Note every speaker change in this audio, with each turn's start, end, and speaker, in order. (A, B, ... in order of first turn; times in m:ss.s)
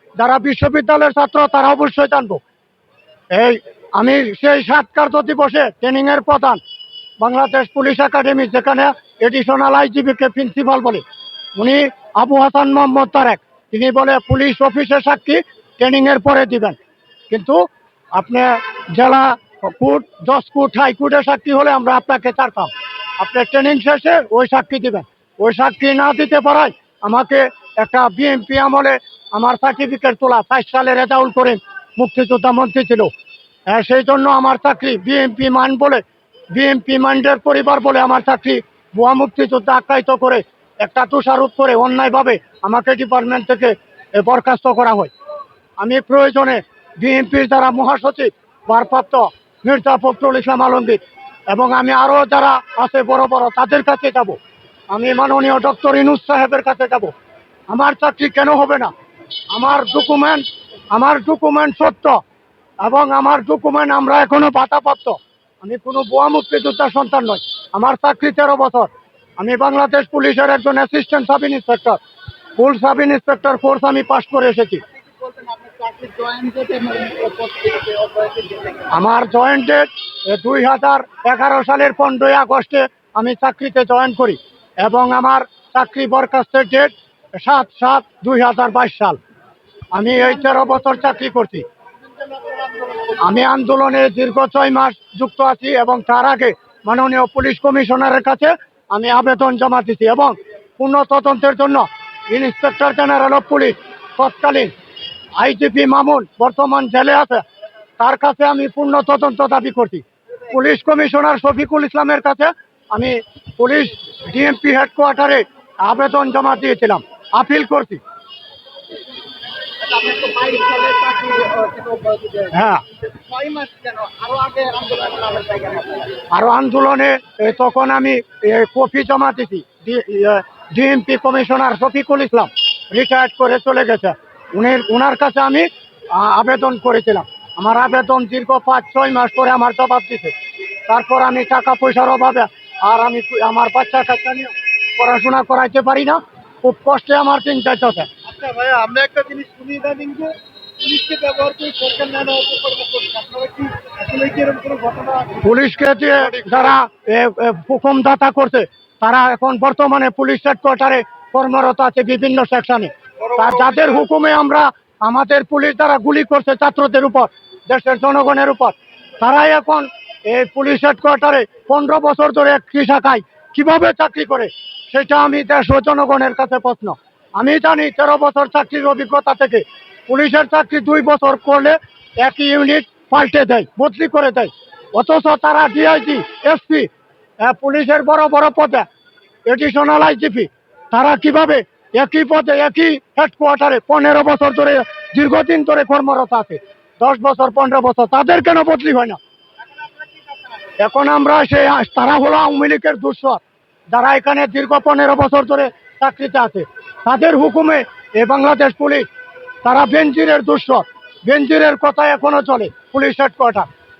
0:00.2-0:02.4 A
0:03.3-0:06.6 A
0:07.2-0:11.0 A
0:11.6-0:16.8 A
0:17.3-0:33.1 A
0:33.7-0:45.1 A
0:45.8-0:54.4 A
0:54.9-0:57.1 A
0:57.7-0:58.9 A
0:59.5-1:02.2 A
1:02.8-1:12.0 A
1:12.6-1:14.8 A
1:15.1-1:18.9 B
1:18.9-1:29.2 A
1:29.9-1:31.7 A
1:32.2-1:33.2 B
1:33.2-1:44.7 A
1:45.4-1:47.4 A
1:48.0-1:58.0 A
1:59.7-2:06.2 B
2:02.5-2:02.8 A
2:06.3-2:20.3 A
2:20.9-2:28.1 A
2:28.2-2:35.4 B
2:35.4-3:06.9 A
3:07.4-3:08.9 A
3:09.5-3:19.2 A
3:20.8-3:29.1 A
3:29.6-3:33.7 A